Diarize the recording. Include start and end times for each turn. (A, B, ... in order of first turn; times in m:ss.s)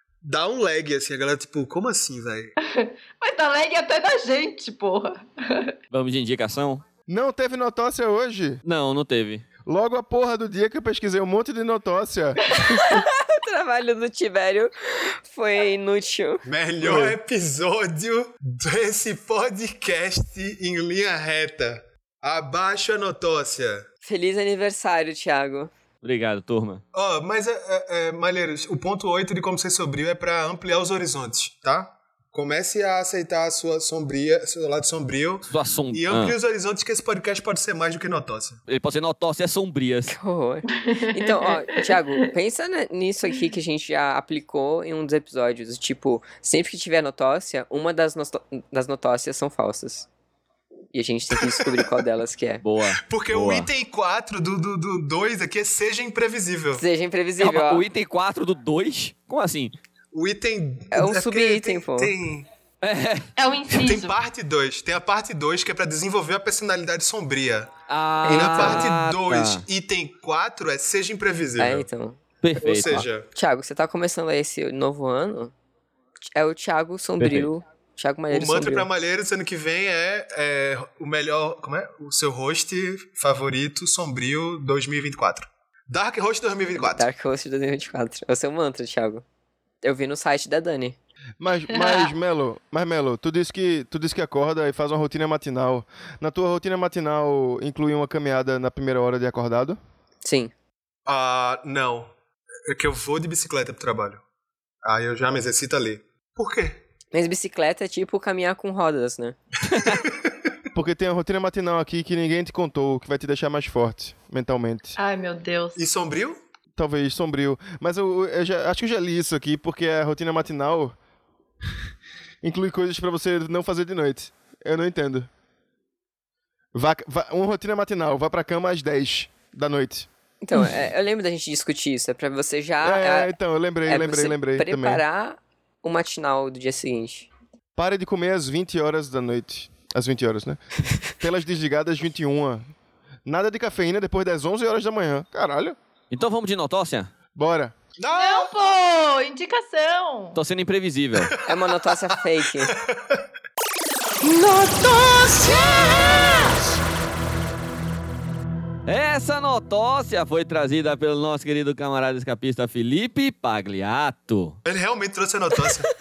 0:00.2-0:02.5 A
0:02.6-0:05.7 B
0:05.9-0:06.8 C
0:07.1-0:08.6 D
0:08.6-0:09.5 C
0:09.6-0:13.0 D
0:12.8-0:16.4 E
0:16.4-0:23.8 A
0:16.8-0:17.2 D
0:24.0-0:25.7 E
0:26.0-0:26.8 C
0:26.9-0:38.6 A
0:35.5-0:36.4 C
0:38.7-0:40.2 C
0:40.1-0:50.1 E
0:40.7-0:41.6 B
0:50.9-0:52.6 E
0:51.4-0:51.9 A
0:52.6-0:53.7 C
0:53.0-0:56.8 A
0:56.8-0:57.8 E
0:57.4-0:59.8 C
1:00.1-1:02.5 A
1:00.9-1:02.1 E
1:02.8-1:03.3 C
1:03.4-1:04.2 B
1:03.8-1:07.7 A
1:07.9-1:09.6 C
1:08.3-1:08.9 E
1:08.3-1:11.9 A
1:11.6-1:12.2 E
1:12.4-1:13.1 C
1:12.6-1:13.3 A
1:13.4-1:15.5 E
1:16.4-1:18.9 E
1:17.2-1:17.5 C
1:18.3-1:27.1 A
1:26.8-1:29.2 E
1:29.8-1:31.0 E
1:31.4-1:39.8 D
1:31.8-1:32.1 B
1:40.2-1:40.5 E
1:41.1-1:42.1 A
1:42.7-1:44.2 A
1:44.8-1:46.8 A
1:47.1-1:49.4 E
1:49.7-1:50.0 C
1:49.9-1:50.3 A
1:50.8-1:55.0 D
1:55.0-1:55.8 B
1:55.8-1:56.4 A
1:56.8-2:01.0 D
2:02.4-2:05.3 D
2:06.7-2:10.1 D
2:10.4-2:13.3 E
2:12.8-2:15.0 D
2:13.9-2:17.3 E
2:17.8-2:22.7 D
2:23.3-2:25.8 D
2:26.1-2:27.1 C
2:27.4-2:27.8 D
2:28.0-2:28.5 A
2:28.2-2:30.4 B
2:30.4-2:31.3 C
2:31.3-2:33.2 A
2:31.5-2:32.7 E
2:35.0-2:36.2 A
2:38.9-2:44.6 C
2:44.6-2:45.9 A